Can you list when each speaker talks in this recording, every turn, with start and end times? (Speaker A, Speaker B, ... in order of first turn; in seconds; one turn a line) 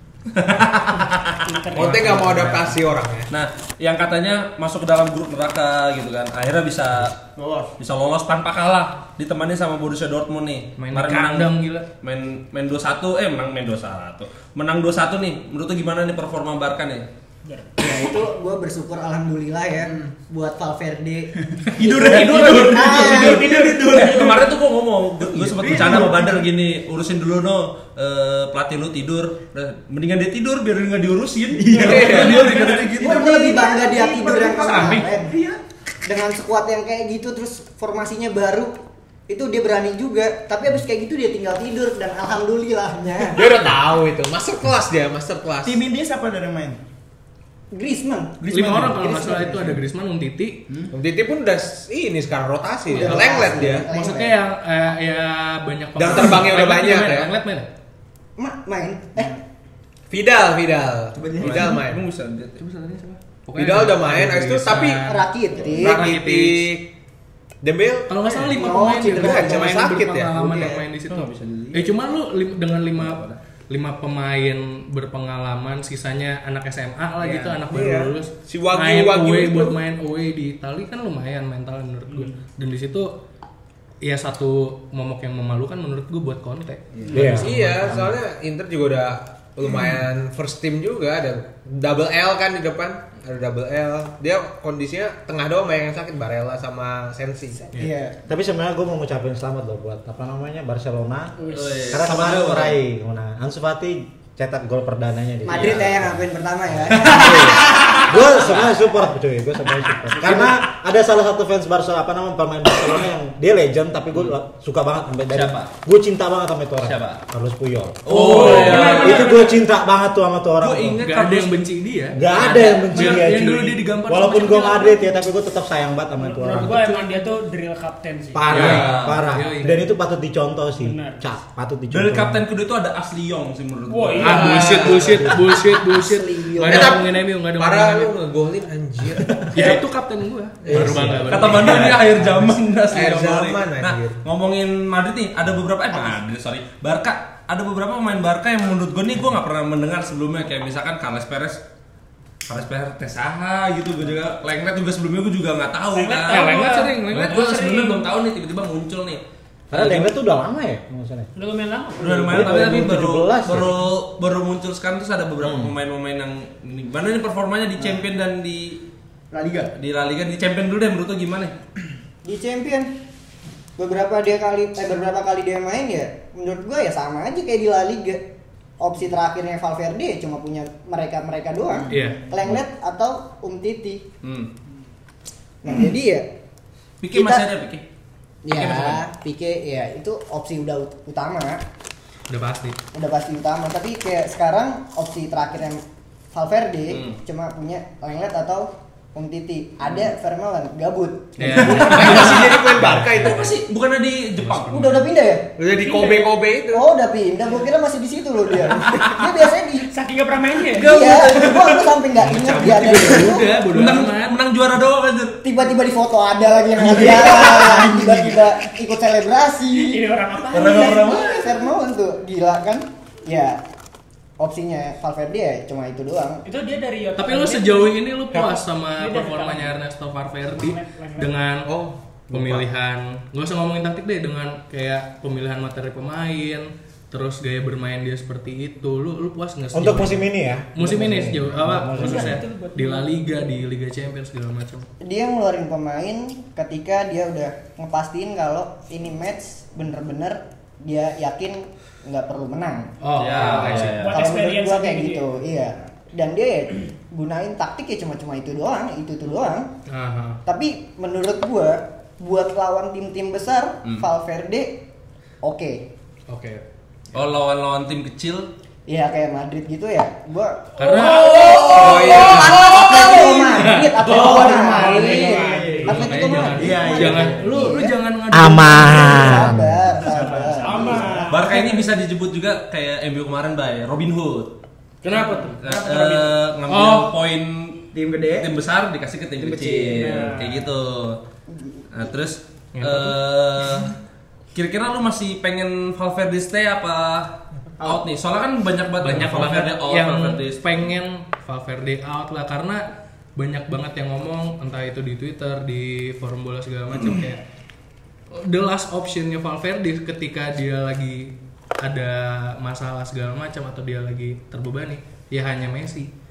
Speaker A: 0.3-1.9
Speaker B: 1.4-2.6
Speaker C: 1.7-3.3
Speaker D: 1.8-2.8
Speaker A: 3.3-7.2
Speaker E: 7.4-7.7
Speaker A: 7.8-17.1
Speaker D: 10.8-11.9
Speaker B: 17.4-17.7
Speaker F: 17.8-23.5
Speaker A: 21.8-33.4
Speaker E: 22.0-24.2
Speaker B: 22.1-24.4
Speaker E: 25.3-26.4
Speaker E: 31.6-35.6
Speaker C: 31.8-32.3
Speaker B: 32.4-32.8
Speaker F: 33.0-35.3
Speaker F: 36.0-38.8
Speaker F: 39.3-43.4
Speaker C: 43.3-45.8
Speaker E: 45.6-46.8
Speaker F: 47.7-48.5
Speaker E: 48.4-49.8
Speaker D: 48.5-50.6
Speaker C: 50.9-53.9
Speaker F: 52.9-54.4
Speaker D: 52.9-57.7
Speaker C: 56.0-57.3
Speaker F: 58.4-59.4
Speaker C: 60.1-62.0
Speaker E: 61.1-61.8
Speaker A: 61.4-62.6
Speaker D: 62.6-66.7
Speaker C: 63.5-65.0
Speaker F: 65.0-66.0
Speaker C: 65.7-66.9
Speaker C: 67.6-68.5
Speaker D: 68.1-83.1
Speaker F: 68.5-69.7
Speaker C: 69.1-70.8
Speaker A: 71.1-71.9
Speaker A: 73.0-73.4
Speaker C: 77.2-79.8
Speaker B: 82.1-82.4
Speaker D: 84.0-88.1
Speaker C: 87.1-97.7
Speaker G: 87.1-87.9
Speaker F: 97.7-98.2
Speaker G: 98.3-121.0
Speaker B: 101.4-101.8
Speaker A: 101.5-102.8
Speaker F: 105.4-108.0
Speaker A: 105.5-105.9
Speaker A: 115.3-115.7
Speaker A: 116.8-117.2
Speaker A: 118.1-119.5
Speaker B: 118.1-119.6
Speaker D: 118.1-119.0
Speaker A: 120.6-121.6
Speaker D: 121.0-125.0
Speaker G: 122.1-127.0
Speaker A: 122.3-123.3
Speaker B: 126.2-128.6
Speaker G: 128.3-132.5
Speaker A: 128.5-129.2
Speaker D: 128.5-129.9
Speaker B: 130.8-131.2
Speaker A: 131.9-134.8
Speaker B: 133.9-134.8
Speaker D: 134.2-138.1
Speaker C: 134.2-135.4
Speaker F: 135.5-137.0
Speaker C: 136.6-139.8
Speaker D: 139.5-141.9
Speaker C: 140.6-142.0
Speaker G: 140.7-142.6
Speaker A: 141.3-151.6
Speaker C: 142.9-144.2
Speaker A: 152.5-160.1
Speaker B: 155.9-158.0
Speaker D: 156.3-157.4
Speaker G: 159.7-161.3
Speaker B: 161.4-162.6
Speaker A: 162.0-168.8
Speaker G: 162.2-163.8
Speaker G: 165.4-165.7
Speaker E: 169.3-169.7
Speaker A: 169.8-171.6
Speaker F: 172.2-172.9
Speaker F: 173.8-178.3
Speaker F: 178.8-184.1
Speaker D: 181.9-182.2
Speaker A: 184.2-184.5
Speaker F: 185.6-186.3
Speaker A: 187.0-187.8
Speaker F: 187.1-187.4
Speaker F: 188.4-191.6
Speaker A: 188.5-189.0
Speaker D: 192.3-192.8
Speaker F: 192.9-201.9
Speaker A: 196.9-197.2
Speaker D: 201.4-203.3
Speaker C: 201.6-203.6
Speaker A: 201.6-205.0
Speaker D: 204.4-205.1
Speaker F: 204.7-205.5
Speaker C: 205.6-206.9
Speaker B: 205.7-206.3
Speaker F: 206.7-209.9
Speaker B: 209.9-211.2
Speaker F: 210.7-213.8
Speaker A: 210.7-215.4
Speaker D: 212.2-214.4
Speaker F: 215.4-223.6
Speaker E: 216.8-218.4
Speaker B: 219.7-221.2
Speaker A: 220.5-221.6
Speaker F: 224.4-226.4
Speaker B: 226.4-228.0
Speaker D: 227.2-231.7
Speaker B: 228.9-229.8
Speaker B: 230.5-231.4
Speaker C: 231.7-232.7
Speaker D: 232.3-244.9
Speaker G: 239.7-242.4
Speaker B: 241.9-243.4
Speaker F: 245.0-252.9
Speaker D: 253.0-254.1
Speaker A: 253.2-254.3
Speaker B: 253.4-255.3
Speaker F: 254.1-259.7
Speaker D: 259.9-260.4
Speaker F: 260.4-264.8
Speaker F: 265.4-265.8
Speaker D: 266.3-266.6
Speaker A: 267.1-268.5
Speaker F: 268.9-277.9
Speaker D: 270.8-272.5
Speaker B: 270.9-273.4
Speaker C: 271.7-273.4
Speaker D: 273.6-274.5
Speaker E: 274.0-276.0
Speaker B: 274.2-276.1
Speaker D: 275.0-275.3
Speaker D: 275.8-279.5
Speaker E: 276.5-277.6
Speaker G: 278.3-279.9
Speaker F: 278.9-281.2
Speaker E: 280.0-281.3
Speaker B: 280.1-281.8
Speaker A: 281.3-284.5
Speaker D: 285.0-285.6
Speaker B: 285.1-285.9
Speaker A: 285.6-291.2
Speaker E: 285.7-286.2
Speaker D: 286.7-287.1
Speaker E: 287.9-288.5
Speaker E: 289.4-290.2
Speaker B: 289.9-290.7
Speaker A: 291.9-293.9
Speaker D: 292.8-293.2
Speaker A: 294.5-300.6
Speaker D: 299.0-302.8
Speaker D: 303.4-307.4
Speaker D: 308.3-316.1